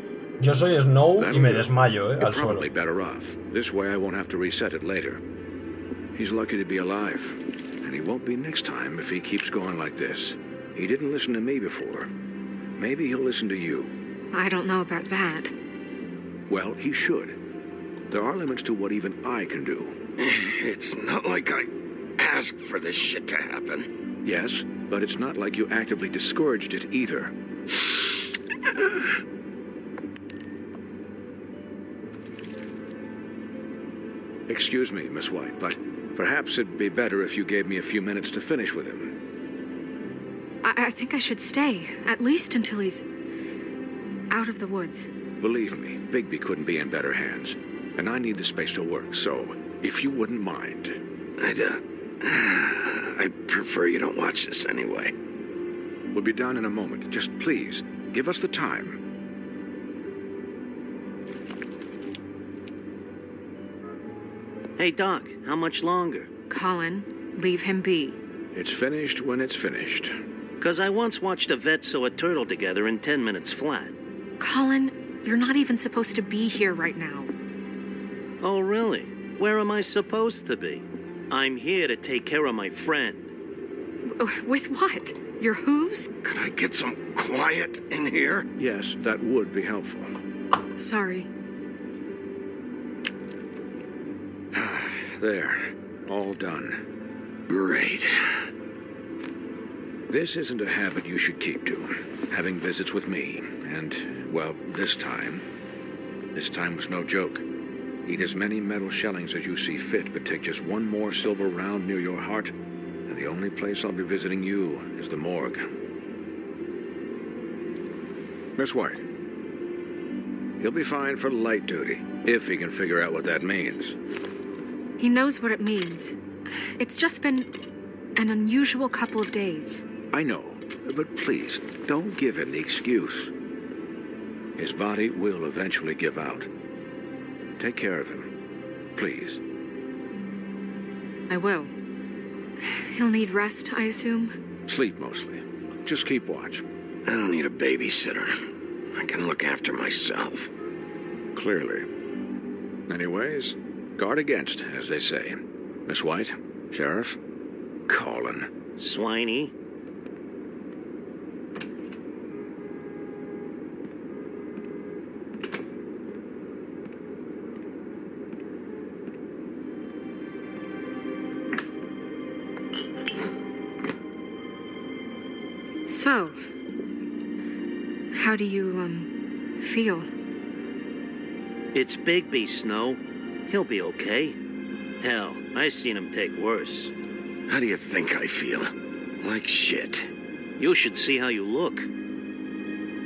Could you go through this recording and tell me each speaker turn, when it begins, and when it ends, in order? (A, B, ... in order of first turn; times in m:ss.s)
0:00.4-0:02.7 A
0:01.2-0:05.2 B
0:06.2-0:12.1 B
0:12.8-0:14.0 B
0:14.3-0:15.5 C
0:16.5-0:17.4 B
0:18.1-0:20.0 B
0:20.2-0:23.9 D
0:24.2-0:27.3 B
0:34.5-0:39.1 B
0:40.6-0:43.0 C
0:44.3-0:45.1 C
0:45.4-0:51.0 B
0:51.4-0:55.1 D
0:56.1-0:59.0 B
1:04.8-1:06.3 E
1:06.5-1:08.2 C
1:08.5-1:10.1 B
1:10.6-1:14.0 E
1:14.4-1:17.3 C
1:18.4-1:23.3 E
1:24.1-1:26.1 C
1:26.2-1:28.5 D
1:28.6-1:30.1 B
1:30.8-1:31.3 C
1:34.5-1:36.8 B
1:37.5-1:38.5 D
1:40.1-1:45.4 B
1:46.4-1:47.4 B
1:48.1-1:52.5 B
1:53.1-1:55.7 B
1:58.6-1:59.0 B
2:00.6-2:04.0 B
2:05.0-2:07.5 C
2:08.2-2:09.8 C
2:10.1-2:13.3 B
2:14.6-2:16.5 B
2:17.6-2:18.3 B
2:19.0-2:19.4 B
2:21.3-2:21.7 C
2:22.6-2:24.3 C
2:24.7-2:26.6 B
2:27.1-2:28.3 D
2:28.9-2:30.5 D
2:31.4-2:31.9 B
2:32.9-2:37.2 B
2:37.9-2:38.5 B
2:38.8-2:39.5 E
2:55.9-2:56.4 C
2:58.1-3:00.1 C
3:01.7-3:04.4 E
3:05.0-3:06.9 E
3:07.5-3:10.1 D
3:10.6-3:11.9 E